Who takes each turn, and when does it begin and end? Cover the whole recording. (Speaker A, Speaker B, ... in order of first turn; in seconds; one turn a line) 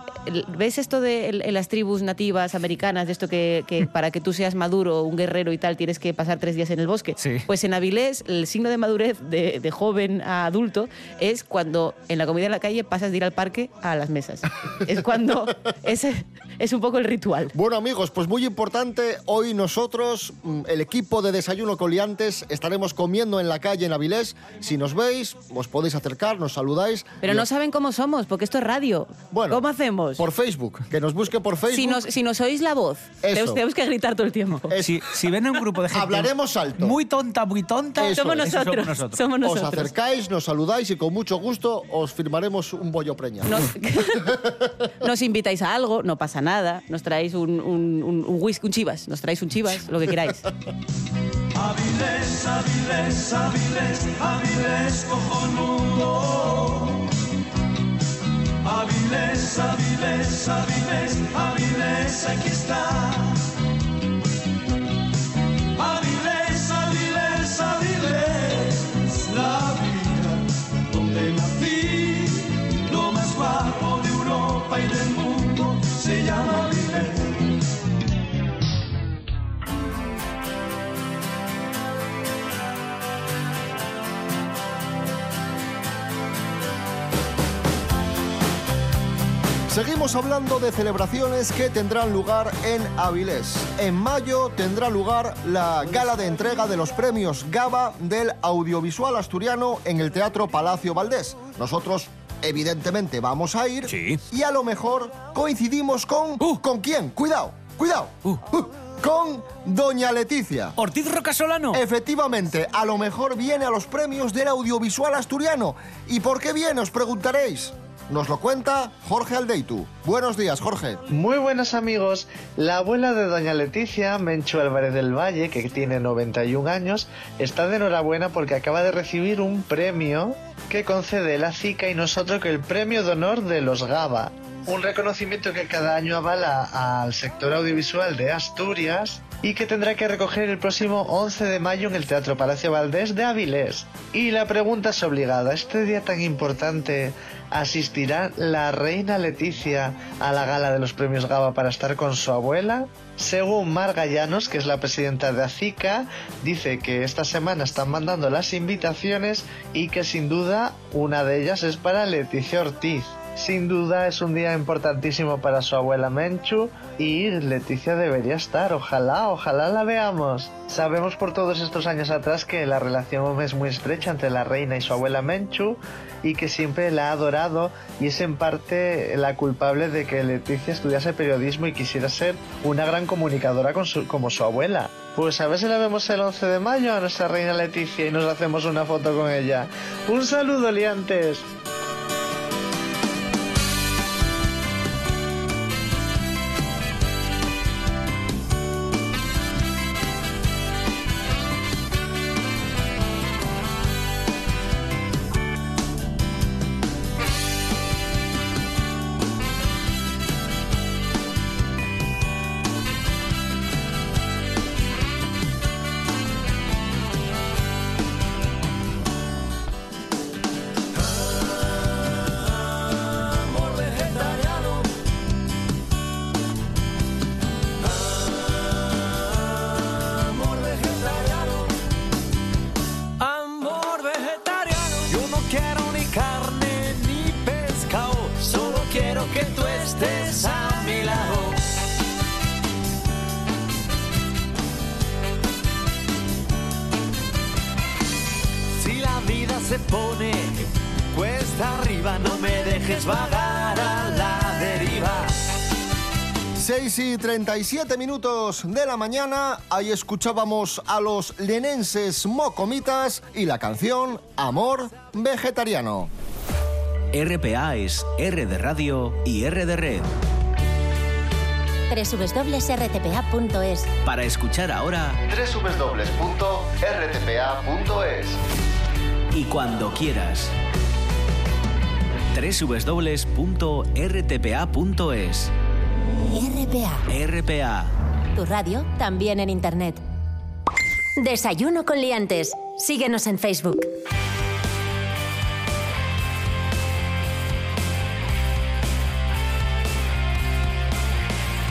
Speaker A: 0.3-17.5
Speaker B: 7.2-7.5
Speaker C: 17.5-27.5
Speaker A: 27.2-30.2
Speaker C: 29.3-29.6
Speaker C: 30.2-32.1
Speaker A: 31.7-34.8
Speaker C: 33.2-33.6
Speaker C: 34.7-35.1
Speaker B: 34.8-39.2
Speaker C: 35.9-37.0
Speaker C: 38.0-38.5
Speaker A: 38.0-39.9
Speaker C: 39.4-43.7
Speaker A: 43.5-44.4
Speaker A: 45.0-50.5
Speaker D: 51.6-57.0
Speaker D: 58.6-63.3
Speaker D: 65.8-77.3
Speaker C: 89.7-110.8
Speaker B: 103.9-104.2
Speaker B: 110.8-111.8
Speaker C: 111.7-121.0
Speaker E: 121.1-191.5
Speaker D: 223.7-224.8
Speaker D: 230.4-231.6
Speaker D: 233.2-241.6
Speaker D: 248.8-250.5
Speaker D: 251.1-255.3
Speaker C: 256.6-266.1
Speaker B: 267.1-270.1
Speaker F: 271.9-273.9
Speaker B: 274.0-275.2
Speaker C: 275.3-278.4
Speaker B: 279.3-280.5
Speaker B: 282.3-285.5
Speaker F: 286.3-287.0
Speaker B: 287.1-287.9
Speaker F: 288.3-290.0
Speaker F: 291.2-293.9